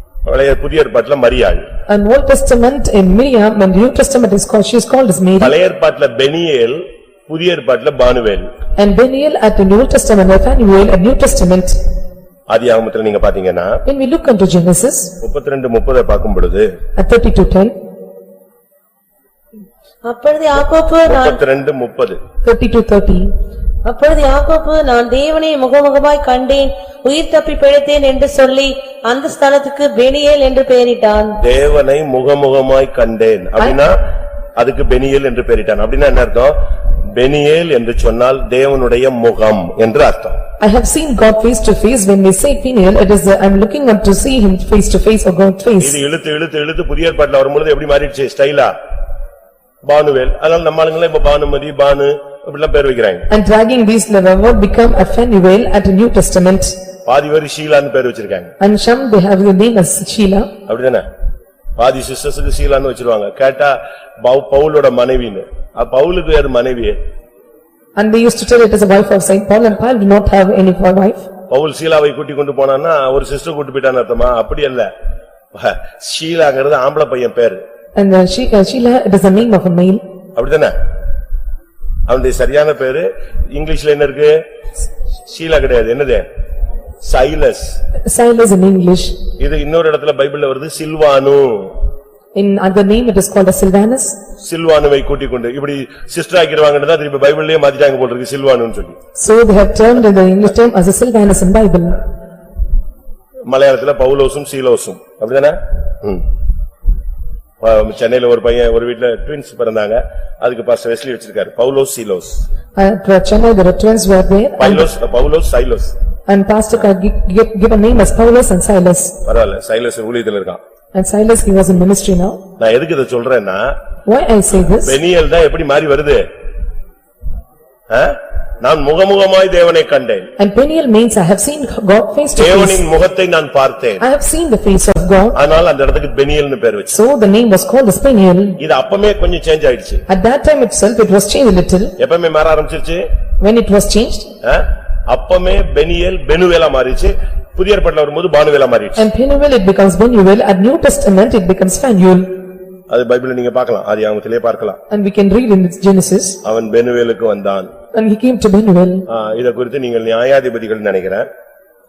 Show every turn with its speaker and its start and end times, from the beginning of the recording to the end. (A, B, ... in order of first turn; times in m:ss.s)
0:00.2-0:01.7 A
0:01.9-0:05.6 B
0:05.4-0:08.5 A
0:08.8-0:11.8 B
0:12.5-0:13.8 A
0:13.9-0:15.2 B
0:15.2-0:16.7 A
0:17.0-0:17.7 B
0:20.0-0:21.4 C
0:21.0-0:22.2 A
0:22.4-0:23.3 B
0:23.8-0:31.4 C
0:31.4-0:33.9 A
0:34.6-0:36.6 A
0:37.2-0:40.4 A
0:40.6-0:46.0 B
0:45.8-0:48.7 A
0:49.8-0:53.3 A
0:53.3-0:56.8 B
0:57.1-0:58.5 A
0:58.6-1:00.5 B
1:00.7-1:01.0 A
1:01.8-1:07.0 A
1:08.0-1:11.3 B
1:11.5-1:14.9 A
1:15.6-1:17.6 A
1:18.0-1:20.0 B
1:20.4-1:20.7 A
1:22.1-1:24.4 A
1:25.3-1:26.3 A
1:27.0-1:27.8 A
1:28.1-1:29.2 B
1:29.4-1:31.8 A
1:32.4-1:34.2 B
1:34.4-1:39.0 A
1:39.2-1:42.0 B
1:43.5-1:46.2 A
1:47.6-1:52.4 A
1:52.8-1:54.9 B
1:54.6-1:55.9 A
1:56.3-1:59.2 B
1:59.2-2:00.6 A
2:00.9-2:02.4 B
2:02.6-2:03.8 A
2:04.1-2:05.0 B
2:04.8-2:06.3 A
2:07.9-2:10.3 A
2:10.4-2:12.8 B
2:12.4-2:14.0 A
2:14.0-2:15.4 B
2:15.4-2:17.0 A
2:16.9-2:18.6 B
2:18.6-2:20.0 A
2:20.1-2:21.9 B
2:22.0-2:23.0 A
2:23.4-2:24.3 B
2:24.4-2:29.1 A
2:29.0-2:32.4 B
2:32.9-2:34.8 A
2:34.9-2:36.4 B
2:36.4-2:37.7 A
2:37.9-2:39.0 B
2:39.1-2:41.3 A